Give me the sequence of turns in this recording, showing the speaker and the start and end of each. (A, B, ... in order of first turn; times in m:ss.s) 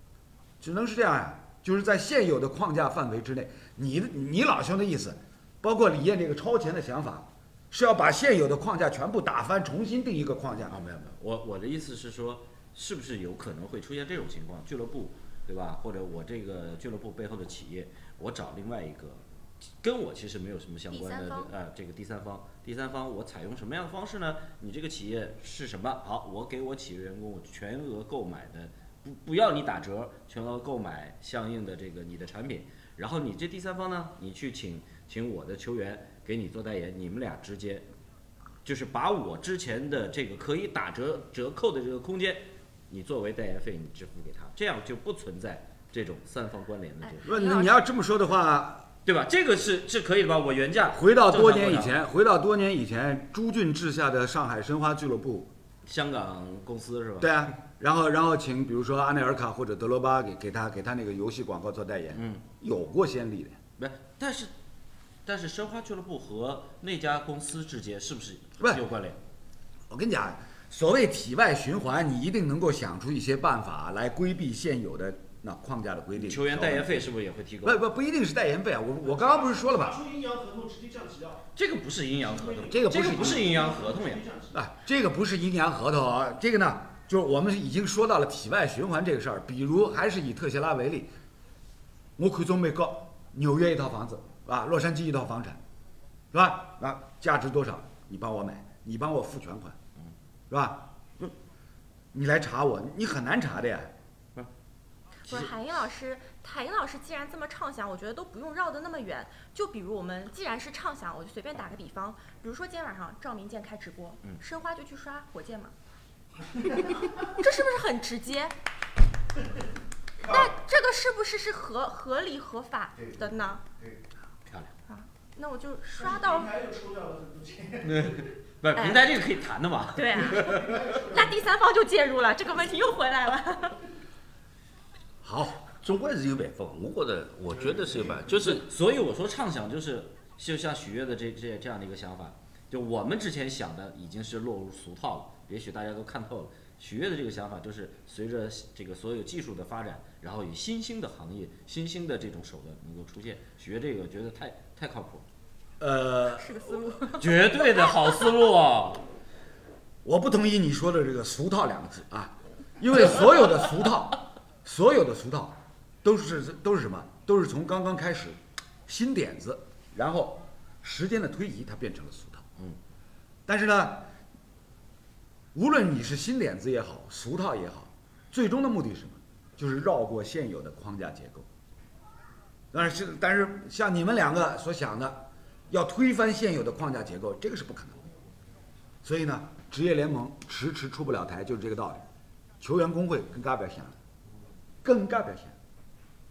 0:00.6-0:10.8 A
0:10.7-0:19.2 B
0:19.8-0:37.9 B
0:20.9-0:21.5 C
0:38.6-0:47.3 B
0:47.0-0:47.8 C
0:47.2-0:48.9 A
0:49.0-0:52.0 B
0:51.0-0:55.5 A
0:55.8-0:57.4 B
0:57.2-1:03.6 A
1:02.2-1:02.4 B
1:03.8-1:04.5 B
1:05.3-1:09.2 B
1:09.9-1:16.9 A
1:16.2-1:17.8 B
1:17.6-1:20.0 A
1:19.0-1:21.5 D
1:21.6-1:24.3 B
1:22.3-1:24.6 D
1:22.7-1:23.5 A
1:24.5-1:31.1 A
1:32.2-1:35.6 A
1:36.3-1:39.8 A
1:40.5-1:41.3 A
1:42.1-1:43.9 A
1:45.2-1:55.7 C
1:56.8-1:58.6 C
2:00.2-2:03.6 C
2:04.5-2:04.7 B
2:04.9-2:06.5 C
2:05.9-2:08.3 D
2:07.8-2:10.8 B
2:08.8-2:09.1 C
2:10.0-2:13.8 C
2:10.3-2:11.3 D
2:15.2-2:15.6 A
2:15.8-2:18.7 E
2:18.2-2:35.2 B
2:35.8-2:36.9 A
2:36.4-2:38.3 C
2:37.2-2:39.0 B
2:40.0-2:52.4 A
2:53.5-2:54.1 A
2:55.5-3:01.5 A
3:02.7-3:08.0 A
3:09.0-3:12.0 A
3:12.6-3:14.0 A
3:14.8-3:15.6 A